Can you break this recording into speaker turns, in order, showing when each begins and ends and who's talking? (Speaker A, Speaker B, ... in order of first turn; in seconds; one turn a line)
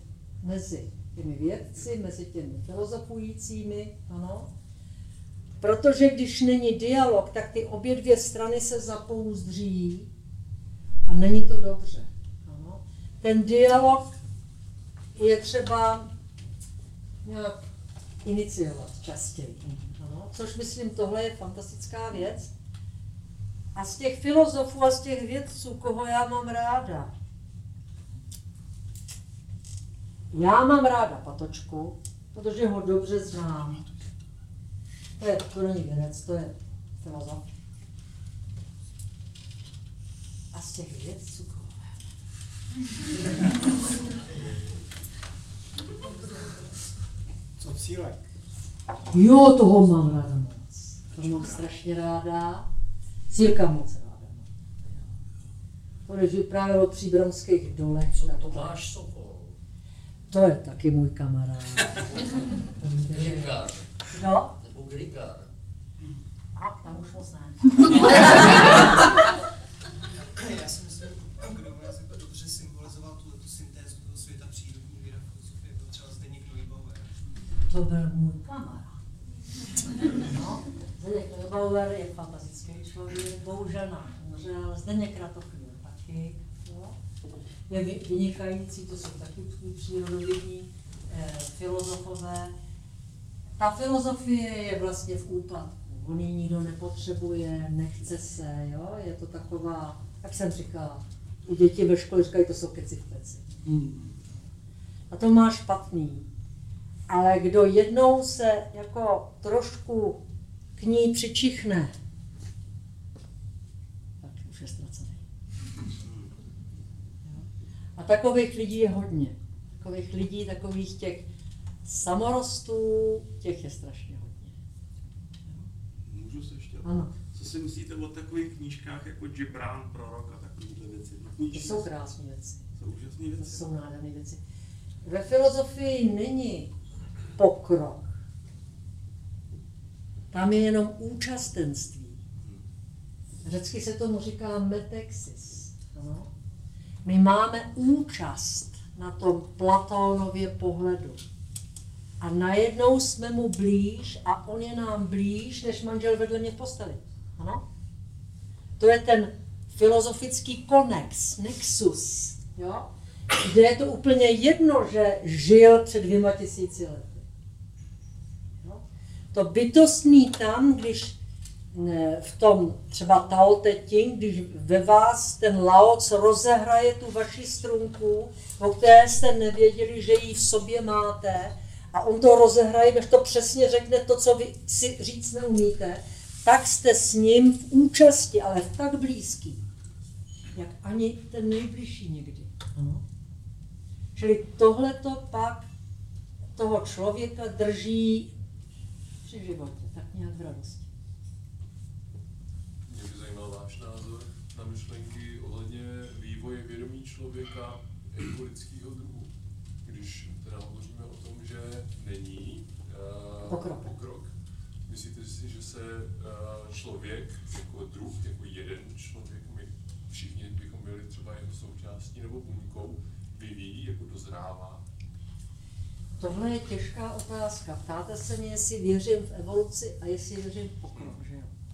Speaker A: 0.4-4.5
Speaker A: 5.6-10.1
Speaker A: 11.1-14.1
Speaker A: 15.2-16.1
Speaker A: 17.2-17.6
Speaker A: 18.2-22.5
Speaker A: 23.7-27.1
Speaker A: 30.3-33.8
Speaker A: 35.2-37.4
Speaker A: 40.5-41.8
Speaker A: 49.1-52.6
Speaker B: 51.2-51.4
Speaker A: 53.3-55.1
Speaker A: 56.1-58.9
Speaker C: 58.1-59.5
Speaker A: 60.3-64.5
Speaker C: 63.1-63.8
Speaker C: 64.6-65.5
Speaker A: 66.5-68.8
Speaker C: 67.9-69.0
Speaker D: 70.1-77.2
Speaker A: 77.7-79.0
Speaker A: 80.0-87.0
Speaker A: 87.7-92.5
Speaker A: 93.6-103.7
Speaker B: 103.7-104.1
Speaker A: 105.1-106.2
Speaker A: 107.1-110.2
Speaker A: 110.8-111.9
Speaker A: 114.2-115.2
Speaker A: 118.0-121.2
Speaker A: 121.8-124.5
Speaker B: 126.0-131.9
Speaker A: 126.8-127.1
Speaker A: 131.5-132.6
Speaker B: 132.8-133.7
Speaker A: 133.4-134.4
Speaker A: 135.0-136.7
Speaker A: 137.4-138.1
Speaker A: 140.3-142.2
Speaker A: 143.4-146.3
Speaker A: 147.0-151.2
Speaker A: 152.2-157.6
Speaker A: 158.8-162.8
Speaker A: 163.4-167.2
Speaker A: 169.3-171.2
Speaker A: 171.7-189.6
Speaker A: 190.5-193.0
Speaker A: 194.2-195.7
Speaker A: 196.6-198.3
Speaker A: 199.2-200.9
Speaker E: 202.9-209.3
Speaker E: 209.8-214.3
Speaker A: 213.5-213.9
Speaker E: 214.8-224.8
Speaker A: 226.2-231.5